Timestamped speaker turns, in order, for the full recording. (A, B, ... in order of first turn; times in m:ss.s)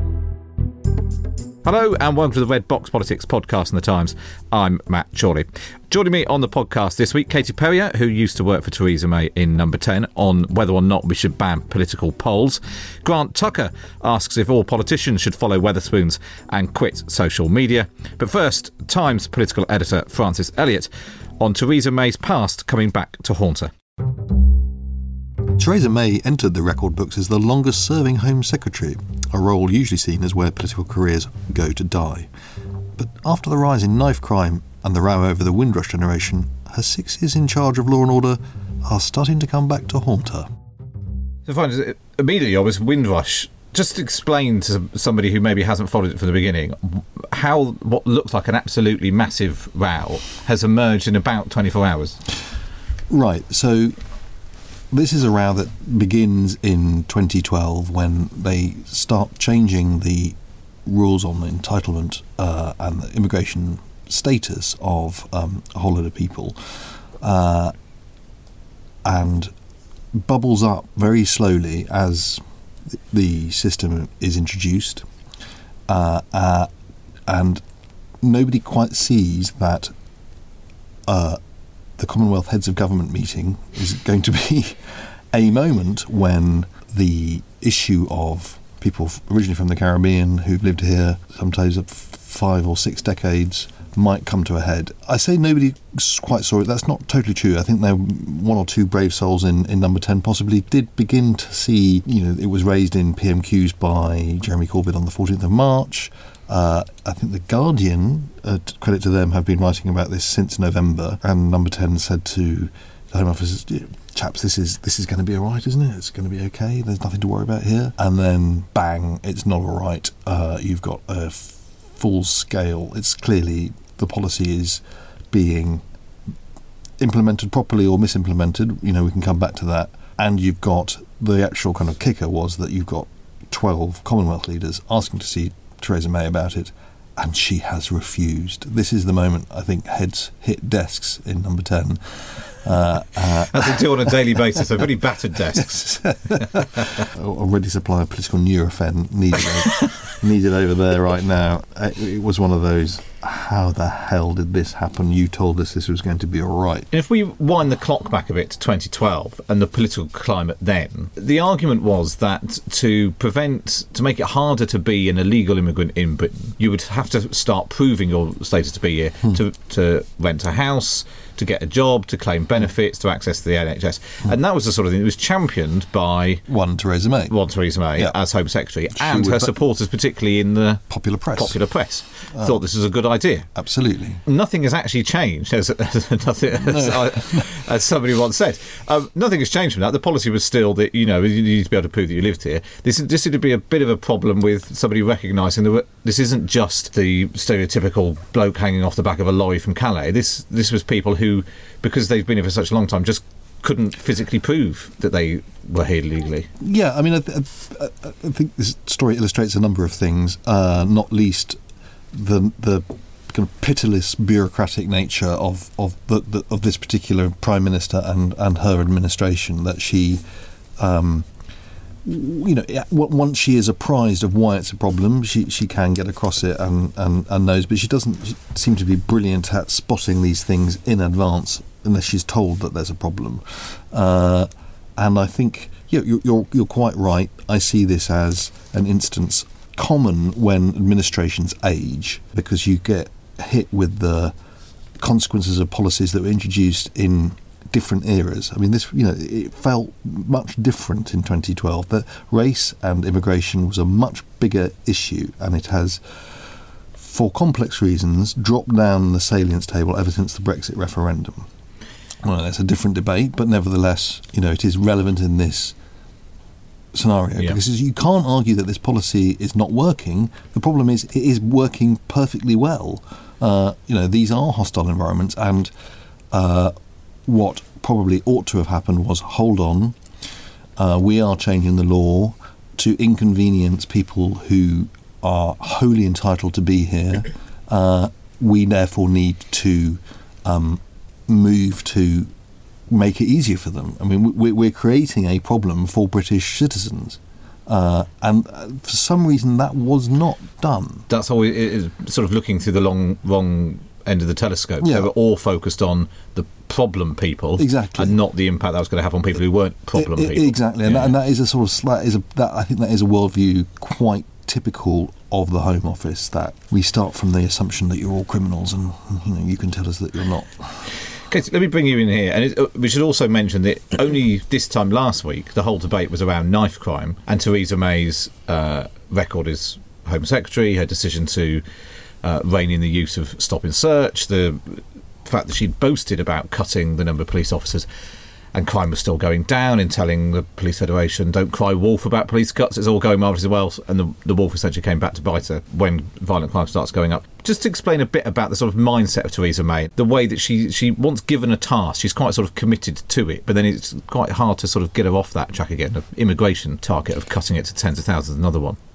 0:01.6-0:20.9 A
0:21.4-0:23.7 A
0:25.5-0:32.3 B
0:33.0-0:40.5 B
0:41.5-0:52.2 A
0:53.1-0:54.0 B
0:54.9-1:07.7 B
1:09.0-1:09.5 B
1:10.1-1:15.1 B
1:15.9-1:16.7 B
1:17.3-1:17.6 B
1:18.2-1:19.9 B
1:21.1-1:21.4 B
1:22.0-2:05.8 B
2:07.0-2:24.6 B
2:23.5-2:26.0 A
2:25.5-2:36.9 B
2:36.9-2:56.4 A
2:56.5-2:57.4 B
2:57.3-3:03.5 A
2:58.9-2:59.5 B
3:00.9-3:01.6 B
3:02.3-3:02.6 B
3:03.6-3:04.2 B
3:04.3-3:26.5 A
3:06.6-3:07.6 B
3:26.6-3:31.6 B
3:32.1-3:40.2 B
3:40.8-3:41.3 B
3:42.0-4:04.4 B
4:05.0-4:16.0 B
4:17.0-4:21.5 B
4:22.2-4:25.8 B
4:26.9-4:35.7 B
4:36.3-4:36.8 B
4:37.3-4:40.0 B
4:40.8-4:52.3 B
4:52.9-5:01.1 B
5:01.1-5:11.1 A
5:04.8-5:05.1 B
5:07.6-5:08.2 B
5:10.0-5:20.9 B
5:21.3-5:31.6 A
5:32.2-5:37.9 A
5:38.5-5:58.8 A